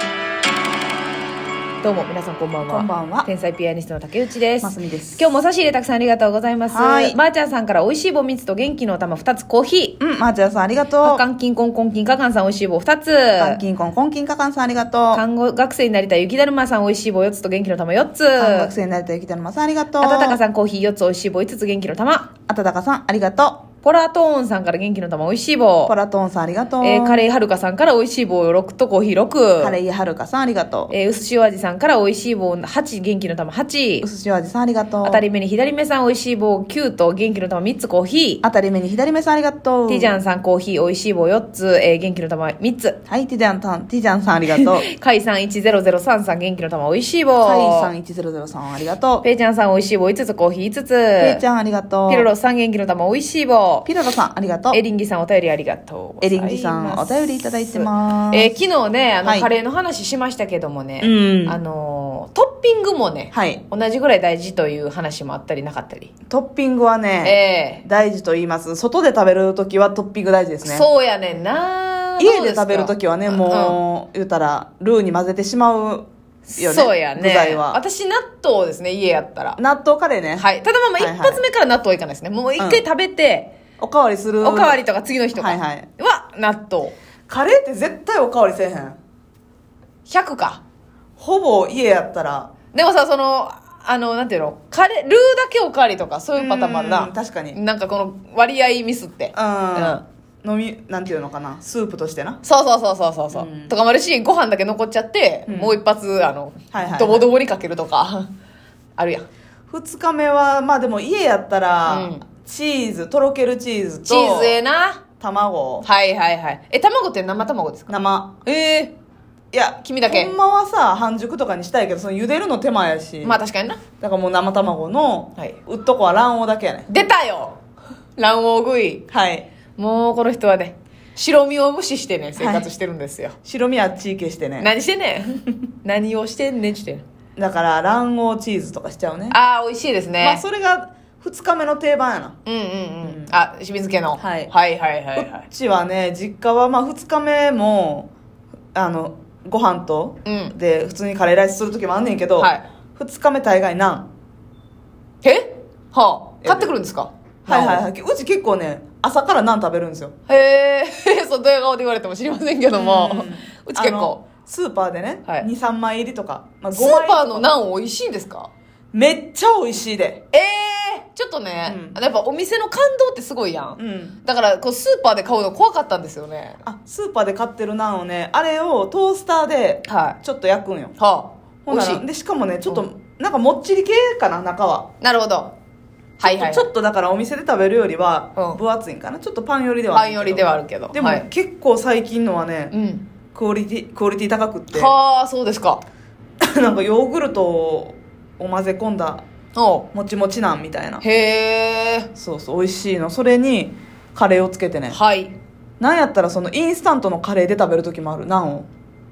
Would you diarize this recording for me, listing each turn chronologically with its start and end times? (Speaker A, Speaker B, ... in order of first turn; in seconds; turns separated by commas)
Speaker A: 1.8-10.0, Speaker B: 2.7-3.3, Speaker B: 4.6-5.2, Speaker B: 6.7-7.2, Speaker B: 10.0-11.2, Speaker A: 11.0-13.6, Speaker B: 13.4-15.2, Speaker A: 15.1-18.7, Speaker B: 18.4-20.4, Speaker A: 20.0-22.3, Speaker B: 22.5-23.6, Speaker A: 23.8-25.9, Speaker B: 25.9-27.2, Speaker A: 26.8-29.8, Speaker B: 29.6-30.9, Speaker A: 30.9-34.1, Speaker B: 34.0-35.2, Speaker A: 35.0-38.4, Speaker B: 38.4-40.1, Speaker A: 39.9-43.0, Speaker B: 43.1-44.9, Speaker A: 44.5-47.9, Speaker B: 47.4-49.2, Speaker A: 49.2-51.4, Speaker B: 51.2-52.3, Speaker A: 52.1-53.9, Speaker B: 53.9-54.8, Speaker A: 54.7-66.1, Speaker B: 56.2-58.6, Speaker B: 59.2-59.5, Speaker B: 61.0-61.6, Speaker B: 63.3-63.6, Speaker B: 66.3-70.9, Speaker A: 67.2-67.8, Speaker A: 70.6-73.8, Speaker B: 72.2-77.8, Speaker A: 76.5-79.6, Speaker B: 79.6-81.4, Speaker A: 80.3-83.5, Speaker B: 82.6-82.8, Speaker B: 83.8-84.8, Speaker A: 84.4-86.9, Speaker B: 85.3-85.9, Speaker B: 87.3-89.0, Speaker A: 90.1-90.6, Speaker B: 91.2-92.5, Speaker A: 92.7-100.0, Speaker B: 96.3-97.6, Speaker B: 99.3-102.4, Speaker A: 102.4-108.3, Speaker B: 103.3-103.7, Speaker B: 105.5-105.8, Speaker B: 106.7-107.3, Speaker A: 109.0-109.2, Speaker B: 109.7-114.6, Speaker A: 111.9-112.2, Speaker A: 114.0-115.0, Speaker B: 115.2-115.9, Speaker A: 115.8-117.9, Speaker B: 117.9-118.3, Speaker A: 118.4-118.9, Speaker B: 119.5-123.4, Speaker A: 119.8-120.3, Speaker A: 123.2-123.8, Speaker B: 124.0-126.9, Speaker A: 126.9-127.6, Speaker A: 128.2-129.0, Speaker B: 129.1-129.5, Speaker A: 129.8-133.3, Speaker B: 132.4-132.7, Speaker B: 133.4-134.7, Speaker A: 134.6-137.0, Speaker B: 137.4-139.4, Speaker A: 139.3-140.4, Speaker B: 140.2-142.3, Speaker A: 142.4-145.4, Speaker B: 143.0-143.3, Speaker B: 144.2-144.5, Speaker B: 145.2-148.1, Speaker B: 148.7-154.1, Speaker A: 150.2-150.5, Speaker A: 152.4-152.6, Speaker A: 155.2-157.8, Speaker B: 156.4-156.7, Speaker B: 157.5-160.1, Speaker A: 160.3-164.2, Speaker B: 162.7-167.5, Speaker A: 166.7-168.5, Speaker B: 168.9-170.2, Speaker A: 170.3-176.6, Speaker B: 171.7-172.0, Speaker B: 173.8-174.2, Speaker B: 176.6-180.9, Speaker A: 179.9-180.2, Speaker A: 181.0-182.0, Speaker B: 181.7-184.9, Speaker A: 185.0-185.5, Speaker A: 186.2-186.7, Speaker B: 186.2-192.7, Speaker A: 189.9-191.2, Speaker A: 192.7-193.1, Speaker B: 193.3-194.9, Speaker A: 194.7-195.8, Speaker B: 196.4-199.2, Speaker A: 199.5-199.9, Speaker B: 199.9-201.0, Speaker A: 201.0-202.1, Speaker B: 202.1-205.0, Speaker A: 204.9-205.3, Speaker B: 205.8-208.7